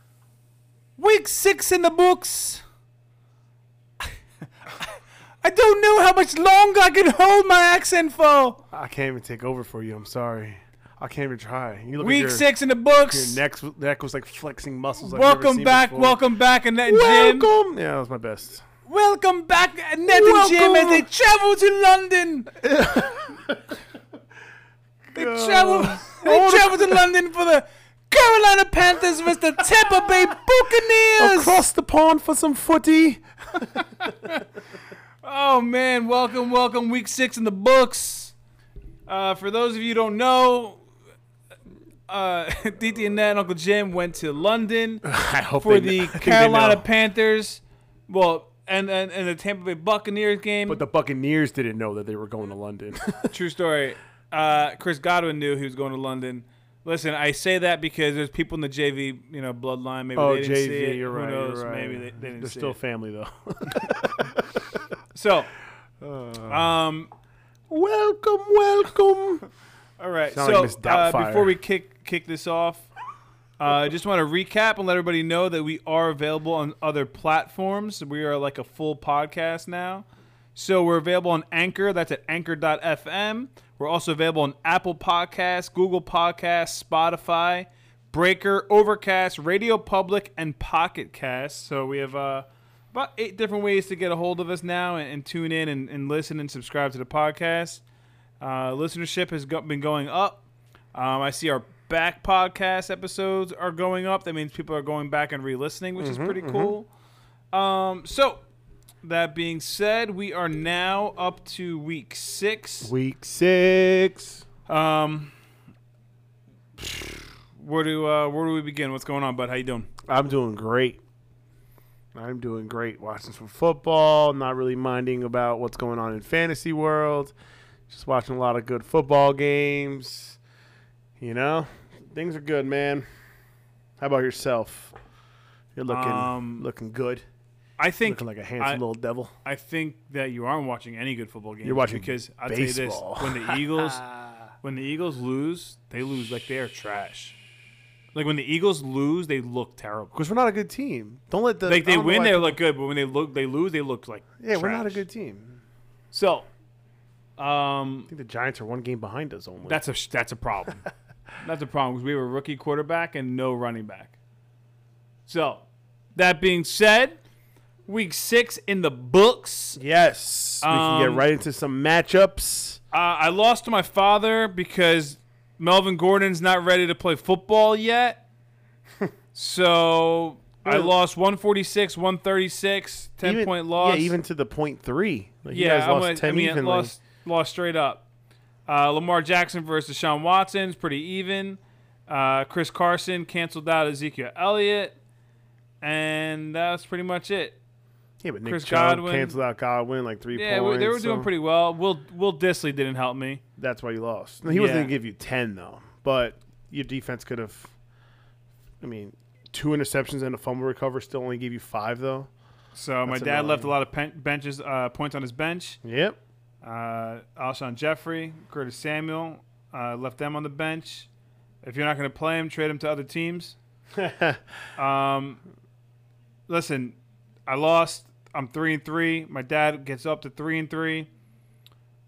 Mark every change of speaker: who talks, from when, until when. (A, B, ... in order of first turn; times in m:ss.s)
0:01.0-0:02.6 A
0:05.4-0:08.6 A
0:08.7-0:12.4 B
0:12.0-0:13.4 A
0:13.1-0:16.2 B
0:15.0-0:17.5 A
0:16.9-0:18.6 B
0:18.8-0:22.6 A
0:20.1-0:21.1 B
0:22.6-0:23.6 B
0:25.1-0:27.1 B
0:25.1-0:31.6 A
0:31.2-0:34.1 B
0:33.7-0:34.4 A
0:35.2-0:38.3 A
0:39.1-0:40.8 A
0:42.1-0:45.0 A
0:45.0-0:46.8 B
0:45.6-0:50.8 A
0:50.7-0:53.3 B
0:53.3-1:02.8 A
1:00.2-1:04.8 B
1:05.1-1:05.5 A
1:06.0-1:06.7 B
1:06.5-1:07.1 A
1:07.7-1:09.4 B
1:10.0-1:12.9 A
1:10.3-1:11.6 B
1:13.6-1:37.8 A
1:38.4-1:40.4 A
1:40.9-1:46.9 A
1:46.0-1:46.7 B
1:47.5-1:48.4 A
1:49.0-1:52.9 A
1:52.8-1:54.4 B
1:54.7-1:55.3 A
1:57.6-1:59.9 A
2:00.1-2:01.0 B
2:02.1-2:07.3 B
2:07.9-2:10.4 B
2:11.2-2:13.0 B
2:14.0-2:14.9 B
2:15.7-2:17.2 B
2:15.9-2:16.7 A
2:17.8-2:18.8 A
2:18.0-2:19.3 B
2:19.4-2:27.4 A
2:21.6-2:24.0 B
2:28.1-2:30.1 A
2:30.1-2:32.6 B
2:31.6-2:35.0 A
2:34.4-2:35.6 B
2:36.1-2:36.5 A
2:37.4-2:38.1 A
2:38.1-2:39.8 B
2:39.6-2:40.8 A
2:41.4-2:44.1 A
2:45.3-2:45.6 A
2:46.1-2:47.2 A
2:47.9-2:49.8 A
2:49.8-2:52.8 B
2:50.6-2:51.2 A
2:52.9-2:58.2 A
2:59.3-3:04.1 A
3:00.6-3:00.9 B
3:03.2-3:06.9 B
3:05.5-3:08.0 A
3:08.7-3:15.0 A
3:15.8-3:17.6 A
3:18.2-3:21.3 B
3:18.4-3:19.4 A
3:20.3-3:23.4 A
3:23.6-3:27.7 B
3:24.4-3:24.9 A
3:28.8-3:32.3 B
3:32.7-3:35.8 A
3:33.0-3:33.7 B
3:35.8-3:36.2 B
3:36.6-3:41.1 A
3:41.6-3:43.6 A
3:43.9-3:44.4 B
3:44.8-3:45.4 A
3:46.5-3:51.1 A